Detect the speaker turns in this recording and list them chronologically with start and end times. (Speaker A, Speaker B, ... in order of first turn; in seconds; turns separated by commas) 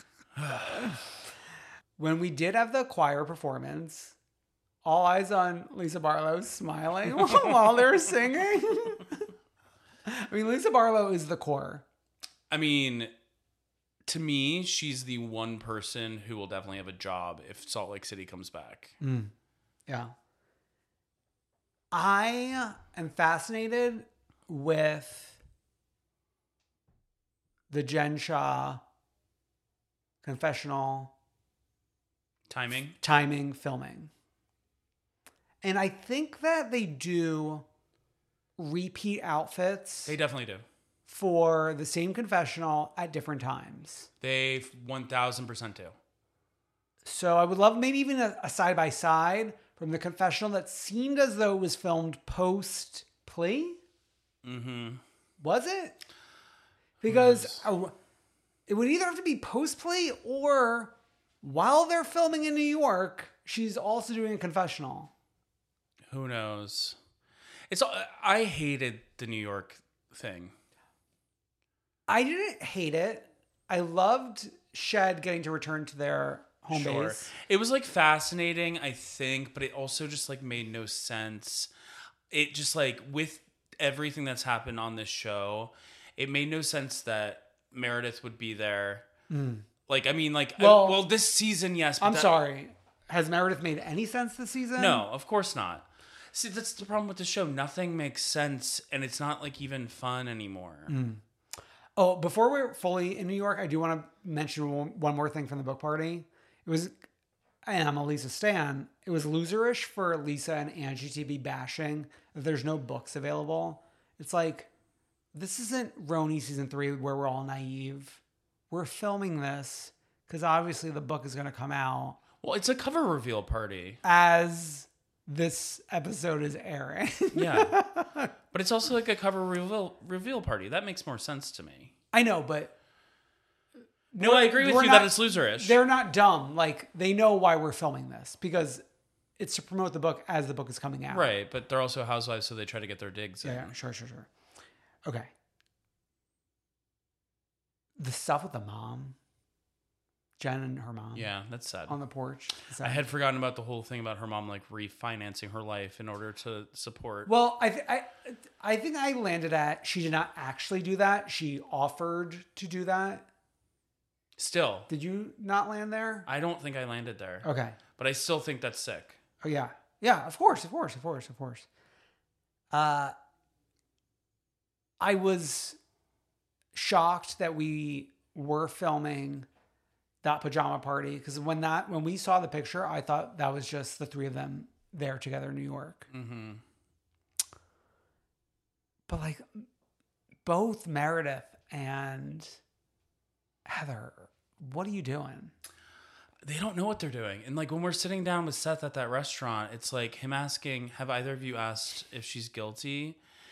Speaker A: 0.4-0.9, Speaker B: 0.6-1.1, Speaker B: 2.0-4.1, Speaker B: 4.8-9.3, Speaker A: 7.2-7.6, Speaker B: 10.1-11.8, Speaker A: 12.5-13.1, Speaker A: 14.1-18.9, Speaker B: 19.0-19.3, Speaker B: 19.9-20.1, Speaker B: 21.9-25.4, Speaker B: 27.7-28.8, Speaker B: 30.2-31.1, Speaker A: 32.5-33.0, Speaker B: 33.0-34.1, Speaker B: 35.6-37.6, Speaker B: 38.6-40.1, Speaker A: 40.0-40.6, Speaker B: 41.0-44.1, Speaker A: 44.2-46.0, Speaker B: 47.0-53.8, Speaker A: 54.4-55.0, Speaker B: 55.4-56.0, Speaker B: 57.0-57.9, Speaker A: 57.1-57.6, Speaker B: 58.7-65.1, Speaker A: 66.1-67.0, Speaker A: 67.7-70.5, Speaker B: 72.1-77.3, Speaker A: 76.7-81.7, Speaker A: 82.3-89.0, Speaker B: 89.3-89.7, Speaker A: 89.9-92.3, Speaker B: 90.6-91.0, Speaker B: 92.0-95.0, Speaker A: 94.8-100.9, Speaker B: 100.9-101.2, Speaker B: 102.0-107.0, Speaker B: 107.7-114.7, Speaker B: 115.3-122.2, Speaker A: 122.4-124.0, Speaker B: 124.0-128.3, Speaker A: 127.3-127.7, Speaker A: 128.5-131.9, Speaker B: 132.1-132.7, Speaker B: 134.1-138.8, Speaker A: 134.2-135.8, Speaker B: 139.4-141.3, Speaker A: 141.1-143.7, Speaker B: 143.4-144.3, Speaker B: 148.0-149.2, Speaker B: 150.4-151.3, Speaker A: 151.1-152.0, Speaker B: 151.9-153.0, Speaker A: 152.8-157.3, Speaker B: 157.2-163.2, Speaker A: 164.4-164.9, Speaker B: 164.9-166.3, Speaker A: 166.3-169.2, Speaker B: 167.4-167.8, Speaker B: 169.4-171.7, Speaker B: 172.7-173.1, Speaker B: 175.0-175.8, Speaker B: 176.7-179.5, Speaker B: 180.2-186.1, Speaker A: 186.1-186.6, Speaker B: 189.1-189.7, Speaker B: 190.4-192.6, Speaker B: 193.7-195.5, Speaker A: 196.4-203.2